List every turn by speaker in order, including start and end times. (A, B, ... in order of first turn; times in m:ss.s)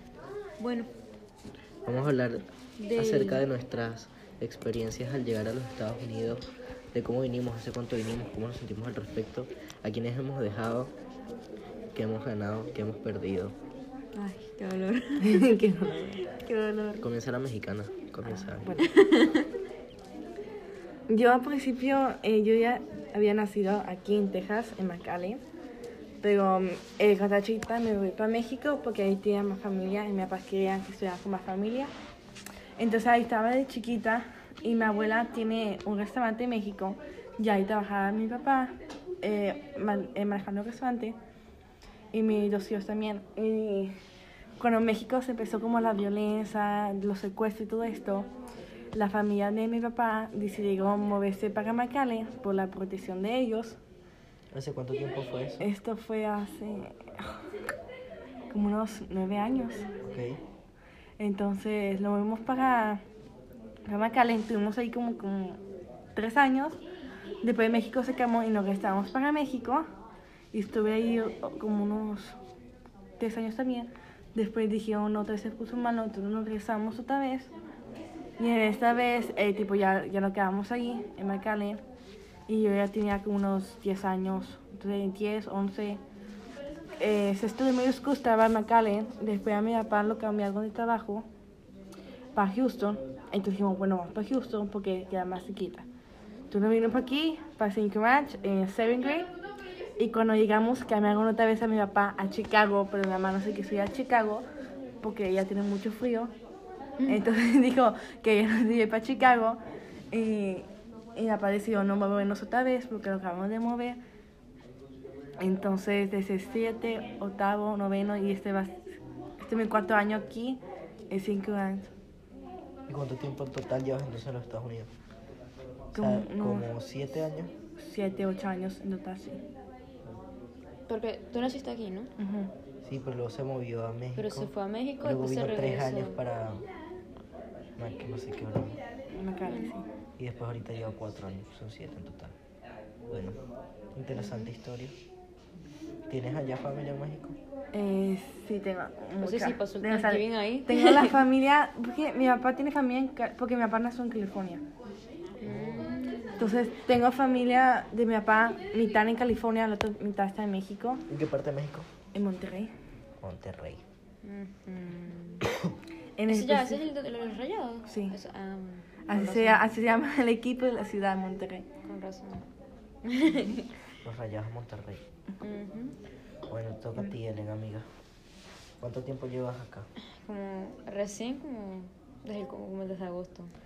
0:00.6-0:00.9 A
0:01.8-0:10.9 B
0:02.8-0:03.4 A
0:11.9-0:13.6 B
0:14.2-0:15.5 A
0:15.2-0:17.0 C
0:17.0-0:18.8 B
0:18.4-0:18.9 C
0:18.8-0:19.5 A
0:21.1-0:25.4 C
0:26.2-0:31.9 C
0:32.8-0:41.2 C
0:42.1-0:44.0 C
0:44.6-0:48.3 C
0:48.9-0:53.8 C
0:54.5-0:55.6 B
0:55.6-0:57.4 C
0:58.5-0:59.9 C
1:00.0-1:00.4 B
1:01.2-1:03.0 C
1:03.8-1:05.6 C
1:06.2-1:06.8 C
1:07.4-1:09.9 C
1:10.5-1:12.4 C
1:13.2-1:17.5 C
1:18.4-1:21.8 C
1:22.5-1:26.0 C
1:27.0-1:31.3 C
1:32.4-1:35.9 C
1:36.5-1:39.3 C
1:40.0-1:44.5 C
1:45.0-1:46.3 C
1:47.0-1:47.2 A
1:47.1-1:49.6 C
1:50.1-1:54.0 C
1:55.4-1:58.8 C
1:59.4-2:01.9 C
2:02.9-2:04.9 B
2:05.9-2:06.7 C
2:05.9-2:07.5 B
2:07.8-2:09.4 C
2:10.9-2:12.1 A
2:12.2-2:12.5 C
2:12.8-2:16.6 B
2:14.2-2:16.2 A
2:17.8-2:18.8 B
2:19.1-2:19.8 C
2:19.5-2:19.8 A
2:20.2-2:22.4 B
2:23.1-2:23.4 B
2:23.9-2:25.0 B
2:24.1-2:24.5 A
2:26.1-2:27.4 B
2:27.7-2:34.6 C
2:29.2-2:31.2 A
2:35.4-2:36.6 A
2:36.4-2:41.0 C
2:41.1-2:41.9 B
2:42.1-2:42.7 C
2:43.2-2:43.8 B
2:44.2-2:45.4 A
2:46.2-2:46.9 C
2:46.3-2:49.7 A
2:47.9-2:48.2 C
2:49.1-2:51.7 C
2:51.8-2:52.5 A
2:53.0-2:53.7 A
2:54.0-2:55.0 B
2:55.4-2:56.0 A
2:56.5-2:57.9 B
2:58.8-2:59.9 B
3:00.2-3:03.5 A